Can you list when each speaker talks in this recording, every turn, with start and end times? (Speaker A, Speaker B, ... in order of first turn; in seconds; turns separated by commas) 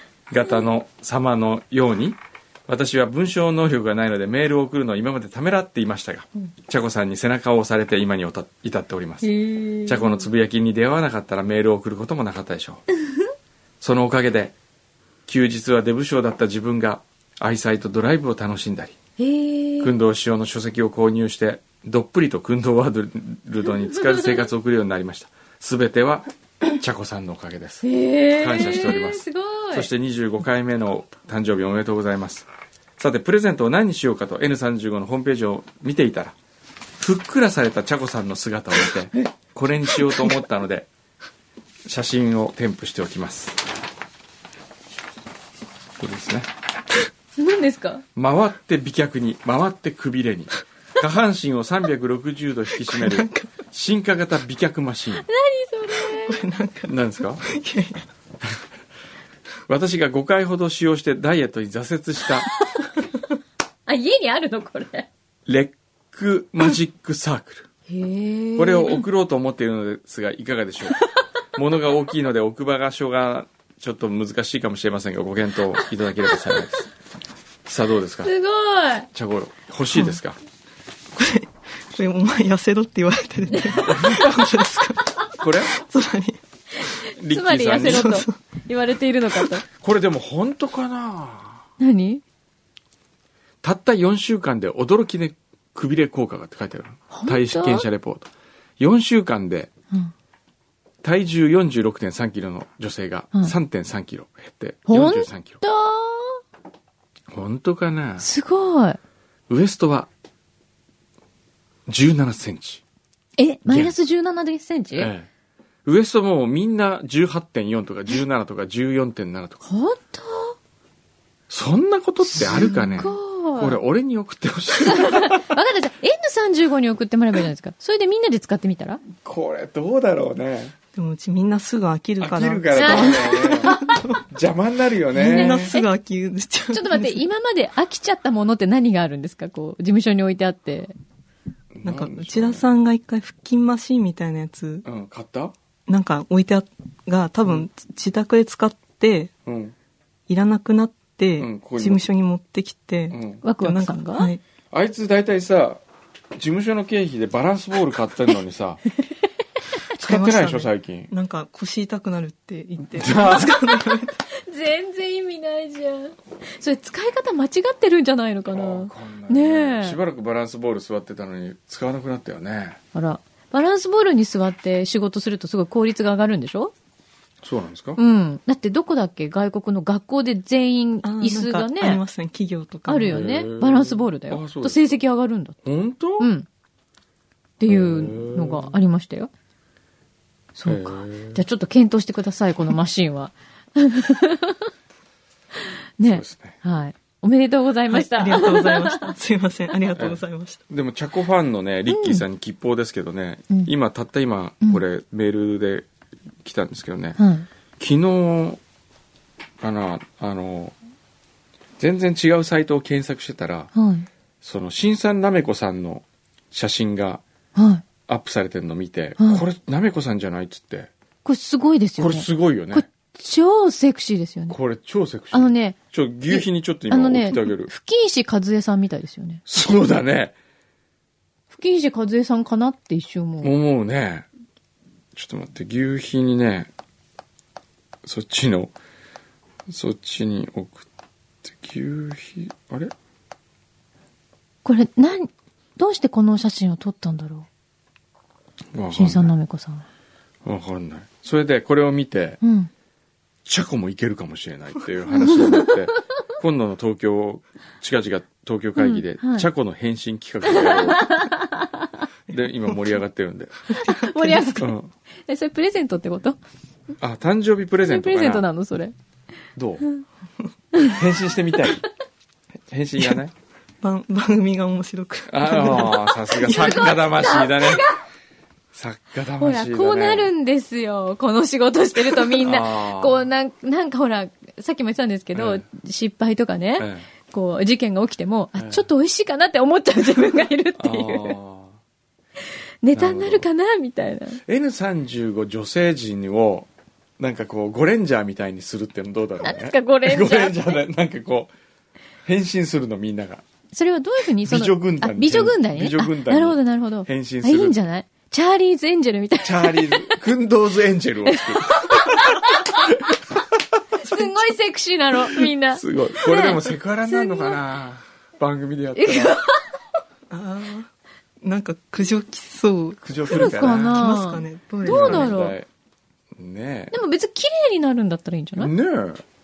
Speaker A: 0.3-9.3, Speaker B: 9.2-10.2, Speaker A: 9.8-12.8, Speaker A: 13.8-14.5, Speaker A: 15.2-19.0, Speaker B: 19.2-19.9, Speaker A: 19.8-27.8, Speaker B: 27.8-29.9, Speaker A: 28.4-36.3, Speaker A: 37.0-40.9, Speaker A: 41.9-43.6, Speaker A: 46.0-46.5, Speaker B: 47.4-48.0, Speaker A: 48.1-55.2, Speaker C: 52.8-53.5, Speaker B: 55.2-56.4, Speaker C: 56.0-58.0, Speaker A: 56.9-57.4, Speaker A: 59.7-62.5, Speaker B: 63.9-65.1, Speaker A: 65.5-67.7, Speaker B: 67.9-69.0, Speaker A: 68.5-71.0, Speaker A: 71.5-76.9, Speaker A: 77.6-78.3, Speaker B: 78.2-79.1, Speaker A: 79.1-80.4, Speaker C: 81.1-86.4, Speaker A: 83.8-84.5, Speaker A: 85.4-85.8, Speaker B: 86.8-89.6, Speaker A: 87.2-88.2, Speaker C: 87.9-88.3, Speaker A: 89.7-91.6, Speaker B: 91.8-92.2, Speaker A: 93.6-99.7, Speaker B: 97.1-97.9, Speaker A: 101.0-105.6, Speaker B: 104.9-106.4, Speaker A: 107.3-108.3, Speaker B: 108.2-109.0, Speaker A: 109.5-110.1, Speaker A: 111.9-112.8, Speaker B: 113.4-115.1, Speaker A: 113.7-113.9, Speaker A: 115.0-115.3, Speaker A: 115.8-119.6, Speaker B: 119.6-120.5, Speaker A: 121.5-125.4, Speaker C: 122.4-122.9, Speaker B: 122.5-123.8, Speaker B: 124.8-129.0, Speaker A: 129.2-130.7, Speaker C: 130.9-134.2, Speaker A: 132.2-135.7, Speaker B: 132.7-133.9, Speaker C: 135.1-137.2, Speaker B: 135.2-135.9, Speaker B: 136.7-140.9, Speaker A: 141.7-142.6, Speaker C: 141.8-144.8, Speaker A: 144.8-145.5, Speaker C: 145.9-149.3, Speaker A: 149.4-149.7, Speaker C: 150.3-154.4, Speaker A: 151.4-152.0, Speaker A: 153.1-153.4, Speaker B: 153.4-154.3, Speaker A: 154.7-155.8, Speaker A: 156.3-158.8, Speaker A: 160.0-161.1, Speaker C: 160.0-164.2, Speaker A: 163.0-163.6, Speaker B: 164.3-170.0, Speaker A: 168.5-172.8, Speaker B: 172.9-176.7, Speaker A: 177.4-178.0, Speaker B: 178.0-182.0, Speaker C: 181.0-183.2, Speaker B: 182.9-185.6, Speaker A: 183.1-184.8, Speaker A: 185.6-186.3, Speaker B: 186.2-186.5, Speaker B: 187.6-189.3, Speaker A: 187.7-188.7, Speaker B: 190.6-194.6, Speaker A: 190.7-191.4, Speaker B: 196.0-199.1, Speaker A: 196.0-196.6, Speaker C: 197.9-200.6, Speaker A: 199.9-205.9, Speaker B: 201.9-202.2, Speaker A: 206.4-207.2, Speaker B: 207.2-207.5, Speaker A: 207.8-208.6, Speaker A: 209.6-210.7, Speaker A: 211.8-213.7, Speaker B: 213.7-214.1, Speaker A: 214.4-217.2, Speaker B: 217.5-217.8, Speaker A: 218.1-220.9, Speaker B: 219.2-219.4, Speaker B: 221.2-224.6, Speaker A: 222.0-222.8, Speaker A: 224.5-227.7, Speaker B: 225.3-225.8, Speaker B: 226.3-229.4, Speaker A: 229.5-230.3, Speaker B: 231.5-233.5, Speaker A: 233.4-234.3, Speaker A: 235.1-236.7, Speaker A: 238.0-238.7, Speaker A: 239.7-240.9, Speaker A: 241.4-242.9, Speaker B: 244.6-247.5, Speaker A: 248.7-249.3, Speaker B: 248.9-249.8, Speaker A: 250.4-252.4, Speaker B: 252.4-252.7, Speaker A: 253.4-261.2, Speaker B: 255.1-255.7, Speaker B: 258.8-259.5, Speaker B: 260.4-262.0, Speaker A: 262.3-263.7, Speaker C: 263.7-264.6, Speaker B: 263.8-264.7, Speaker A: 264.6-264.9, Speaker B: 265.3-266.4, Speaker A: 267.0-268.4, Speaker B: 267.9-268.9, Speaker A: 269.6-269.9, Speaker A: 270.8-271.9, Speaker A: 272.7-273.3, Speaker C: 273.8-276.8, Speaker A: 275.3-277.8, Speaker B: 275.8-278.0, Speaker A: 278.7-280.3, Speaker B: 279.4-291.4, Speaker A: 282.3-283.2, Speaker A: 285.3-285.6, Speaker A: 286.8-287.1, Speaker A: 288.6-288.8, Speaker A: 290.8-291.8, Speaker B: 292.8-294.4, Speaker A: 292.9-293.4, Speaker A: 294.4-301.5, Speaker B: 299.4-300.8, Speaker A: 302.2-303.4, Speaker B: 303.7-310.2, Speaker A: 304.4-307.8, Speaker A: 309.4-312.9, Speaker B: 311.3-313.0, Speaker B: 314.0-317.6, Speaker A: 315.7-319.4, Speaker B: 318.9-319.6, Speaker C: 320.3-320.9, Speaker C: 321.4-325.3, Speaker A: 323.0-324.1, Speaker B: 323.2-325.6, Speaker A: 324.8-325.7, Speaker A: 326.3-327.0, Speaker B: 326.9-328.7, Speaker A: 328.6-329.2